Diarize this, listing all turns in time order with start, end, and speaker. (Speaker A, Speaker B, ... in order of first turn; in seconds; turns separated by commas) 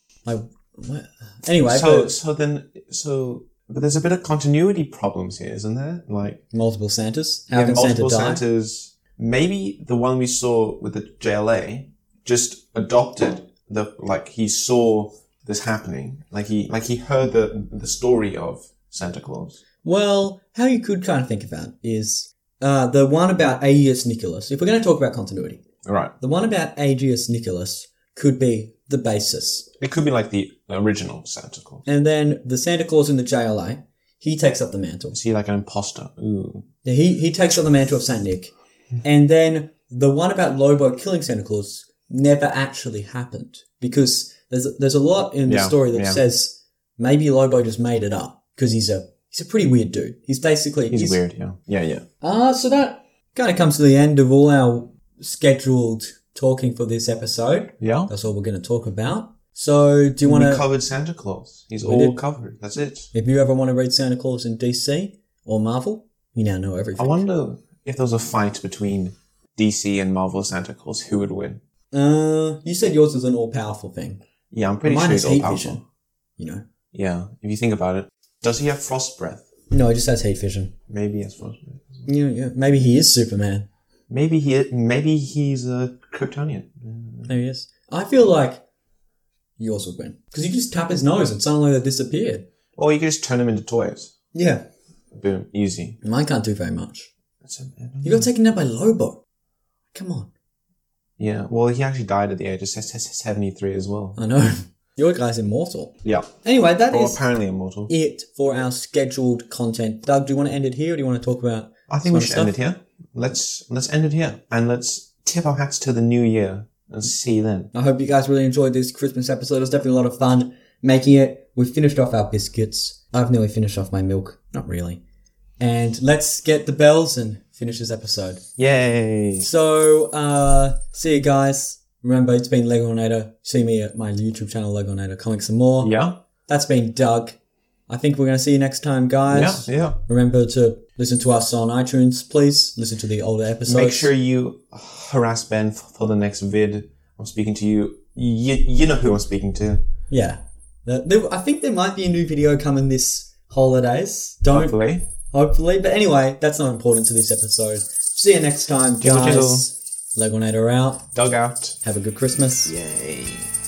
Speaker A: 0.2-2.1, Speaker B: 1.6-6.4, Speaker A: 6.5-8.4, Speaker B: 7.5-19.6, Speaker A: 19.8-25.6, Speaker B: 25.8-26.1, Speaker A: 26.2-29.7, Speaker B: 29.8-31.8, Speaker A: 31.9-35.1, Speaker B: 35.1-36.6, Speaker A: 36.8-51.2, Speaker B: 45.5-46.2, Speaker B: 50.9-52.0, Speaker A: 52.2-60.6, Speaker B: 57.8-58.1, Speaker B: 60.2-63.1, Speaker A: 61.8-62.2, Speaker A: 63.1-67.3, Speaker B: 67.0-71.6, Speaker A: 71.9-74.2, Speaker B: 74.5-75.8, Speaker A: 74.8-75.8, Speaker A: 76.4-76.6, Speaker B: 76.9-79.5, Speaker A: 79.7-80.7, Speaker B: 80.9-82.1, Speaker A: 82.0-83.7, Speaker B: 84.1-87.3, Speaker A: 87.3-88.6, Speaker A: 89.6-92.4, Speaker B: 92.8-94.1, Speaker A: 94.3-94.6, Speaker B: 95.1-96.0, Speaker A: 96.0-97.1, Speaker B: 97.4-98.3, Speaker A: 98.0-99.2, Speaker A: 99.9-100.3, Speaker B: 101.2-104.2, Speaker A: 104.2-107.2, Speaker B: 106.0-106.3, Speaker B: 106.9-107.9, Speaker A: 107.9-112.5, Speaker B: 111.9-117.7, Speaker A: 117.7-125.0, Speaker A: 125.6-128.4, Speaker B: 128.6-129.5, Speaker A: 129.4-135.9, Speaker B: 135.8-136.2, Speaker A: 136.5-137.3, Speaker A: 137.9-144.1, Speaker B: 139.3-140.0, Speaker B: 143.7-149.8, Speaker A: 150.1-154.8, Speaker B: 154.5-155.0, Speaker A: 155.3-161.1, Speaker B: 159.0-159.7, Speaker B: 161.1-161.8, Speaker A: 161.8-162.8, Speaker B: 162.7-163.5